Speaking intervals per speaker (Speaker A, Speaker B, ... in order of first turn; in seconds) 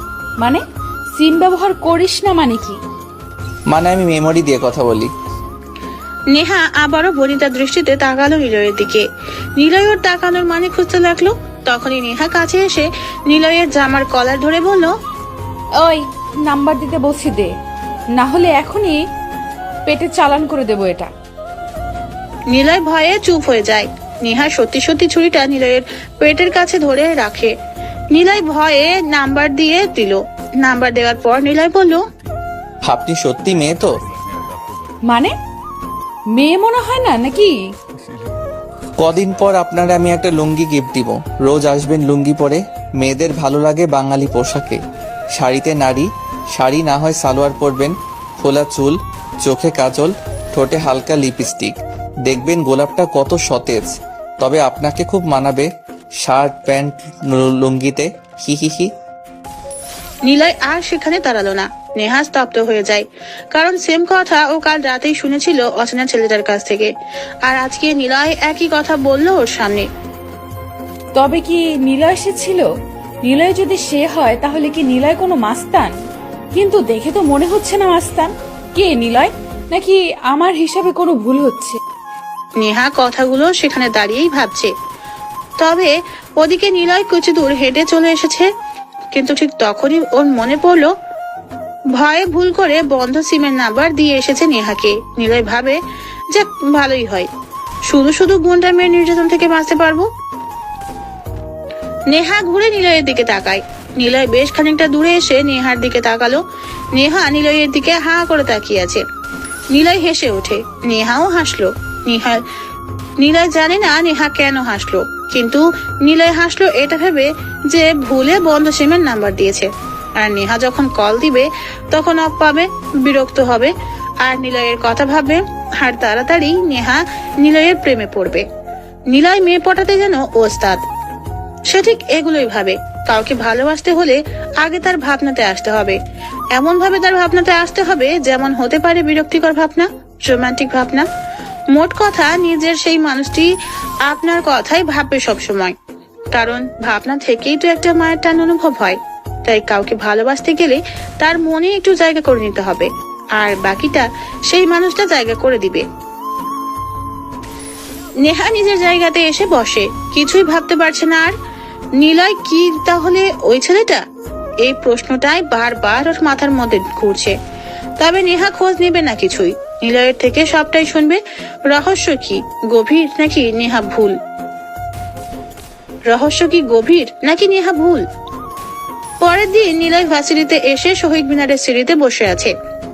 Speaker A: 1.1-2.8, 15.8-17.5, 18.1-19.0, 19.9-21.1, 35.1-35.3, 36.3-37.6, 71.1-72.7, 73.2-75.9, 76.5-81.8
Speaker B: 3.7-5.1, 32.9-33.9, 39.0-44.8, 45.3-55.7, 56.2-58.9
Speaker C: 6.3-9.1, 9.6-14.9, 22.5-27.5, 28.1-32.0, 60.2-66.9, 67.4-69.9, 82.6-84.7, 85.6-88.5, 89.1-90.9, 91.9-97.3, 97.9-100.1, 102.1-106.4, 106.9-109.0, 109.7-112.4, 113.2-119.7, 120.2-128.4, 129.1-130.8, 131.7-136.0, 136.5-141.1, 141.7-143.5, 144.0-145.8, 146.3-155.8, 158.2-161.3, 162.0-164.0, 164.6-167.3, 168.0-174.2, 176.1-178.0, 179.2-182.5